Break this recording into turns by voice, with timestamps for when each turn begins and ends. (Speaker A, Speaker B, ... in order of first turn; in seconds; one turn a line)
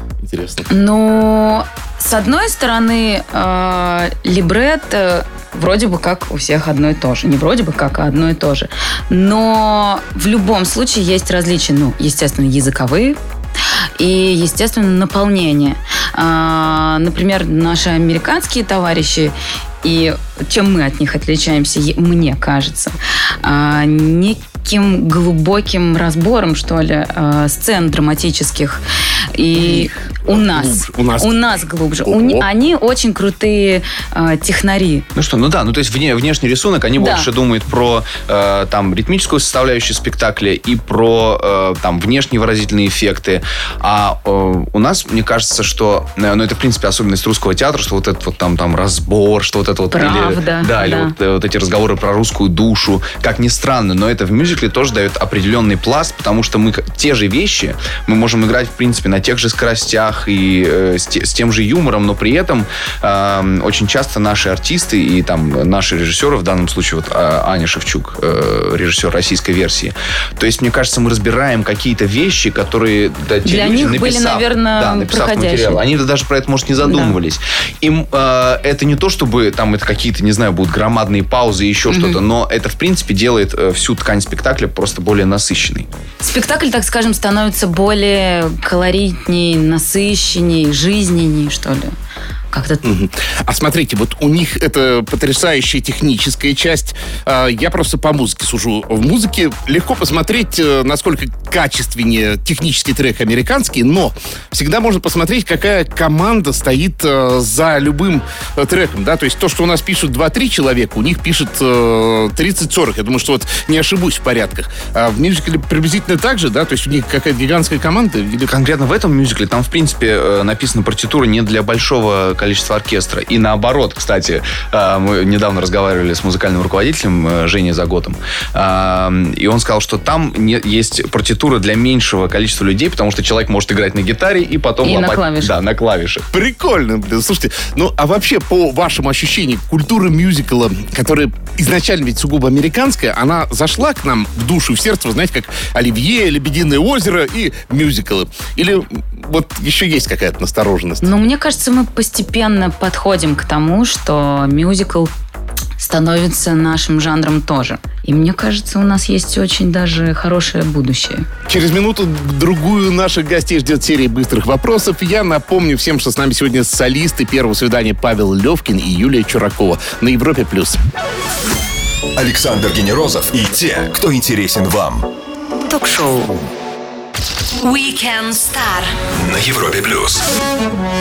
Speaker A: 0.2-0.7
Speaker B: 0.7-13.2
Speaker B: 14.0-28.8
Speaker B: 29.3-35.1
Speaker A: 29.5-32.5
Speaker C: 35.1-85.9
Speaker B: 37.0-37.3
Speaker B: 49.9-51.1
Speaker B: 73.5-75.8
Speaker B: 76.9-77.2
Speaker B: 81.9-82.2
Speaker B: 86.2-92.0
Speaker B: 92.5-92.8
Speaker A: 92.8-118.5
Speaker C: 118.5-136.3
Speaker B: 134.8-135.5
Speaker A: 136.3-151.1
Speaker B: 151.0-155.1
Speaker B: 155.8-161.3
Speaker A: 161.5-170.8
Speaker D: 172.2-175.1
Speaker E: 175.6-176.4
Speaker E: 177.6-179.0
Speaker D: 179.1-180.2